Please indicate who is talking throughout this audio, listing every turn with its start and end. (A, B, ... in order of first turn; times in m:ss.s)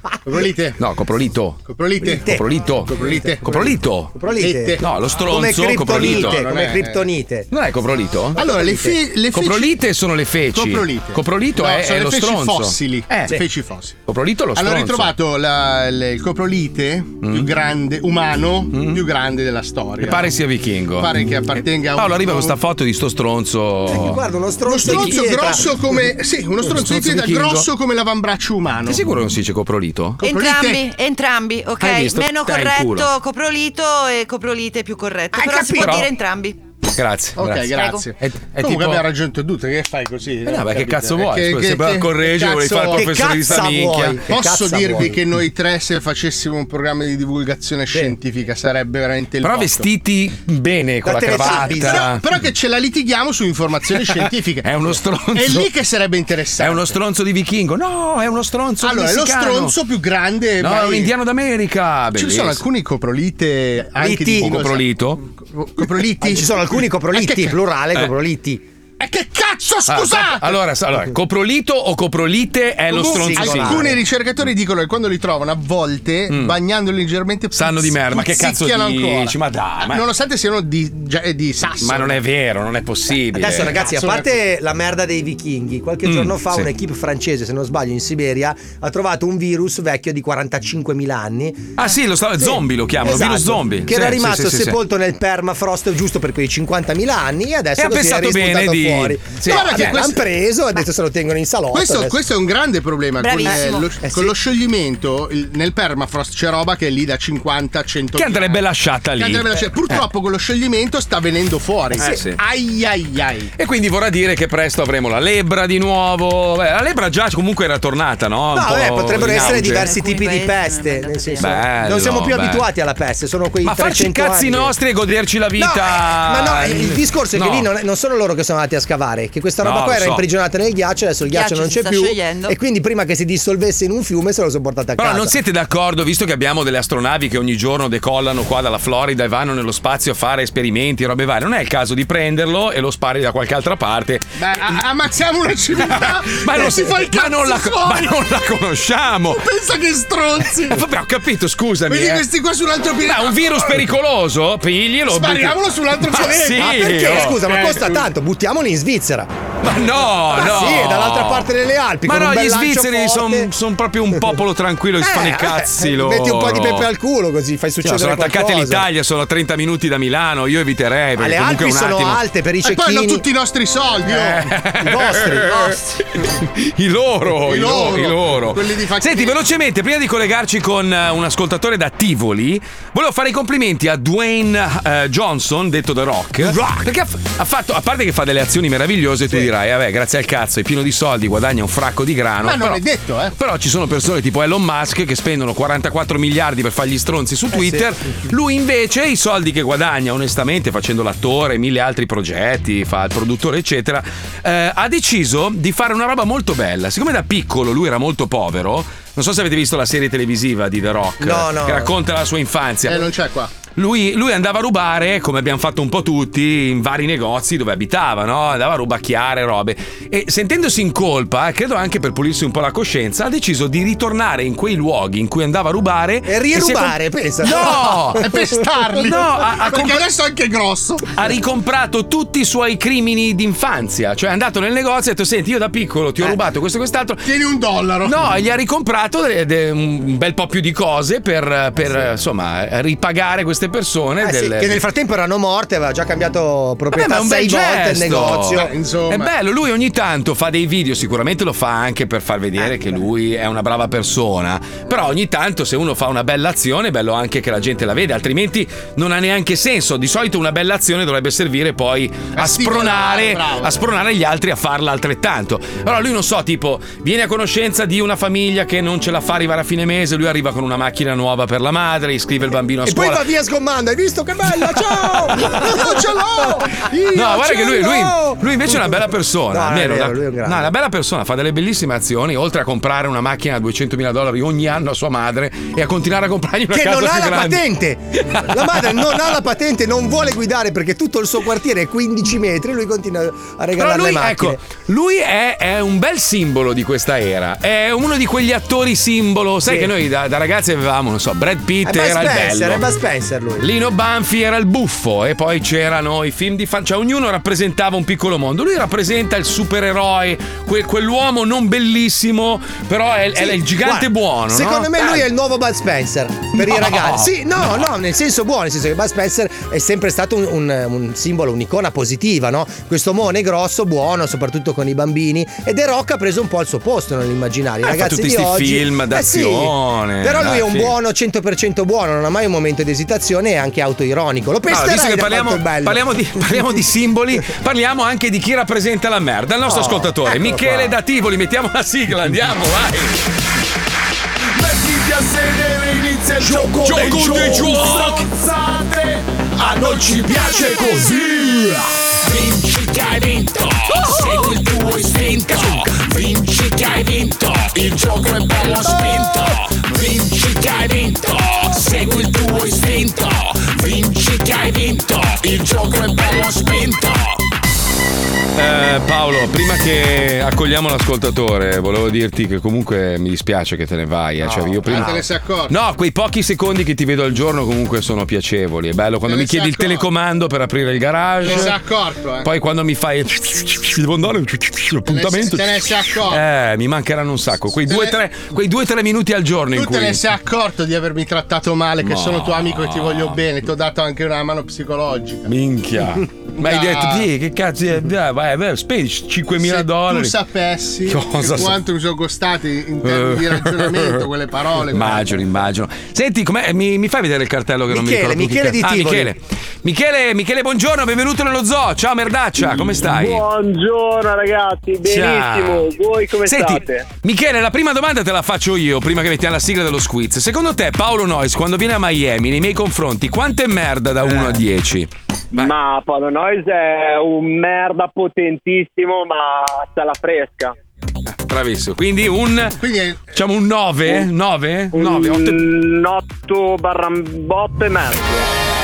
0:00.3-0:00.8 A
0:00.8-0:04.2 B
0:01.7-0:03.8 A
0:02.0-0:03.4 C
0:04.1-0:07.5 C
0:04.4-0:04.8 A
0:04.8-0:06.4 B
0:05.9-0:07.1 A
0:07.5-0:08.4 B
0:08.4-0:09.0 C
0:08.4-0:09.7 A
0:09.3-0:13.4 B
0:10.5-0:14.0 A
0:14.1-0:15.1 B
0:14.6-0:20.3 A
0:17.2-0:17.5 B
0:18.7-0:19.0 B
0:20.0-0:24.2 B
0:21.0-0:22.6 A
0:23.9-0:25.7 C
0:24.7-0:29.0 A
0:24.8-0:25.2 B
0:26.6-0:27.7 B
0:28.8-0:30.2 B
0:30.2-0:36.6 D
0:30.2-0:30.8 A
0:31.8-0:33.1 B
0:35.3-0:36.1 C
0:35.8-0:36.1 B
0:36.9-0:39.0 B
0:37.4-0:43.6 A
0:37.7-0:38.0 D
0:40.4-0:44.2 B
0:42.8-0:45.2 C
0:44.3-0:49.9 A
0:49.4-0:52.2 B
0:51.0-0:52.1 C
0:51.3-0:54.7 A
0:54.6-0:55.7 B
0:55.3-0:57.0 A
0:56.6-0:59.8 B
0:58.8-1:01.1 A
1:00.6-1:02.6 B
1:02.2-1:04.9 A
1:04.0-1:04.5 C
1:04.1-1:05.2 B
1:05.4-1:07.6 A
1:06.2-1:08.6 C
1:09.0-1:10.6 A
1:09.9-1:13.9 B
1:12.9-1:14.0 C
1:13.0-1:22.2 A
1:16.3-1:16.6 B
1:17.5-1:20.0 B
1:21.8-1:23.8 B
1:23.3-1:31.8 C
1:23.7-1:24.3 A
1:26.0-1:26.7 B
1:31.8-1:34.8 B
1:32.4-1:42.2 C
1:37.8-1:40.0 B
1:39.5-1:40.2 A
1:41.7-1:48.6 A
1:43.2-1:43.9 D
1:43.5-1:44.4 C
1:48.2-1:50.0 B
1:49.2-1:53.5 A
1:52.0-1:52.4 B
1:53.6-1:59.9 B
1:58.5-2:04.8 C
1:59.2-2:01.7 D
2:01.4-2:02.7 B
2:03.6-2:07.7 B
2:05.6-2:15.3 C
2:09.6-2:10.2 B
2:11.3-2:12.6 D
2:15.0-2:24.8 B
2:24.4-2:28.2 A
2:25.8-2:29.4 B
2:29.3-2:30.8 A
2:30.7-2:32.2 B
2:31.9-2:33.8 A
2:33.0-2:37.4 B
2:35.1-2:38.1 A
2:36.5-2:39.3 C
2:39.6-2:41.5 B
2:40.3-2:43.5 C
2:42.0-2:46.9 B
2:45.0-2:48.9 C
2:47.8-2:52.2 B
2:51.2-2:53.3 C
2:52.6-2:54.4 A
2:54.1-3:12.8 B
2:54.1-2:55.8 C
2:57.4-2:59.4 A
3:12.4-3:13.4 A
3:13.4-3:33.1 B
3:17.5-3:17.9 C
3:31.2-3:31.9 C
3:32.9-3:33.5 A
3:33.7-3:48.3 B
3:46.2-3:48.3 C
3:48.2-3:51.1 A
3:48.9-3:50.1 B
3:51.2-3:57.3 B
3:57.2-3:58.2 A
3:58.0-4:04.8 B
4:04.2-4:08.7 C
4:06.9-4:33.3 B
4:08.5-4:09.3 A
4:22.4-4:23.8 A
4:32.8-4:38.8 C
4:35.3-4:35.7 B
4:35.4-4:37.0 A
4:37.1-4:47.6 B
4:39.5-4:40.7 C
4:46.7-4:54.6 C
4:48.2-4:49.3 B
4:53.8-5:02.8 B
4:59.7-4:59.9 C
5:01.8-5:03.7 C
5:03.6-5:15.3 B
5:13.4-5:36.8 C
5:16.6-5:17.3 B
5:27.8-5:30.9 B
5:34.7-5:43.2 B
5:39.7-5:41.0 C
5:45.7-5:48.3 B
5:46.4-5:48.0 C
5:47.1-5:47.5 E
5:49.6-5:50.8 C
5:49.7-5:51.3 E
5:50.4-5:51.8 B
5:52.2-6:07.4 E
6:08.6-6:21.8 B
6:14.4-6:15.2 C
6:14.9-6:15.7 A
6:19.3-6:20.1 A
6:21.4-6:22.5 A
6:22.4-6:30.2 B
6:25.1-6:26.4 A
6:27.9-6:28.2 A
6:29.8-6:35.5 A
6:32.0-6:33.4 B
6:35.5-6:40.4 B
6:36.6-6:37.3 A
6:39.6-6:45.3 A
6:41.1-6:41.8 B
6:43.0-6:44.2 B
6:44.9-6:53.5 B
6:47.9-6:49.3 C
6:52.8-6:57.1 F
6:55.0-6:55.9 B
6:56.4-7:05.8 B
7:05.5-7:10.7 F
7:11.3-7:15.6 B
7:12.8-7:13.3 A
7:14.9-7:18.5 F